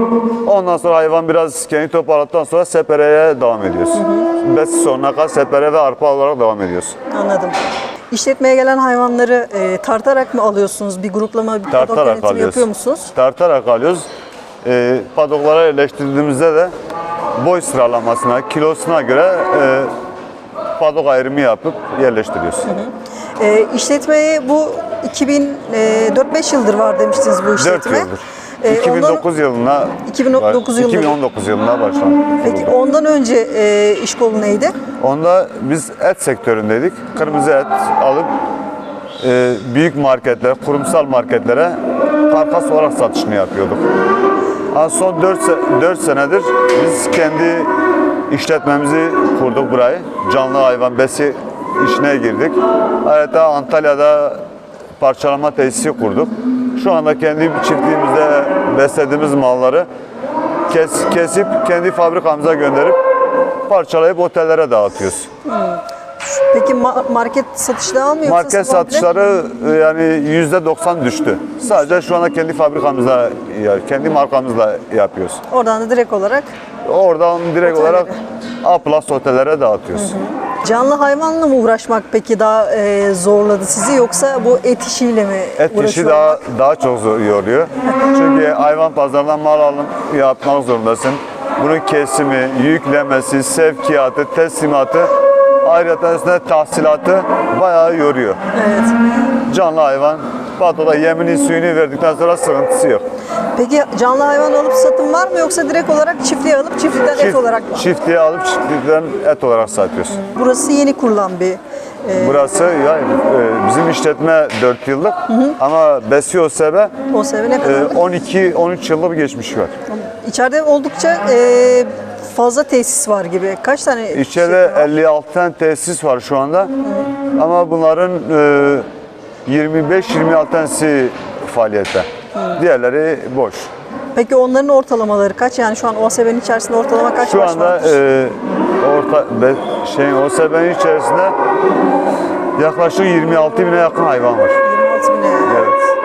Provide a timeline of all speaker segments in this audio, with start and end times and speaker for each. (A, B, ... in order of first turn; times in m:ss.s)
0:00.4-0:07.0 A
0:03.9-0:04.3 B
0:07.1-0:07.6 B
0:08.1-0:13.1 B
0:11.7-0:14.1 A
0:14.6-0:16.7 A
0:17.4-0:19.9 A
0:20.8-0:22.7 A
0:22.6-0:28.1 B
0:27.6-0:32.7 A
0:28.6-0:29.2 B
0:30.0-0:31.2 B
0:32.4-0:34.8 B
0:35.0-0:38.3 A
0:39.2-0:43.8 A
0:44.7-0:47.7 A
0:48.3-0:54.4 A
0:55.0-0:59.9 A
1:00.7-1:03.0 A
1:03.7-1:05.3 A
1:05.4-1:09.0 B
1:08.2-1:15.4 A
1:15.5-1:16.5 B
1:16.8-1:20.2 A
1:17.6-1:18.2 B
1:19.9-1:26.4 B
1:25.6-1:35.1 A
1:35.6-1:38.4 A
1:38.5-1:39.0 B
1:39.4-1:43.0 A
1:43.6-1:47.9 B
1:47.1-1:50.2 A
1:50.1-1:52.6 B
1:52.1-1:56.9 A
1:55.3-1:55.6 B
1:57.1-1:58.0 B
1:57.6-1:59.7 A
1:59.9-2:04.9 B
2:04.1-2:06.7 A
2:06.8-2:07.1 B
2:07.4-2:08.9 A
2:09.4-2:13.7 A
2:12.3-2:12.6 B
2:14.1-2:18.0 B
2:17.2-2:21.4 A
2:22.6-2:24.6 A
2:24.6-2:25.8 B
2:25.4-2:25.8 A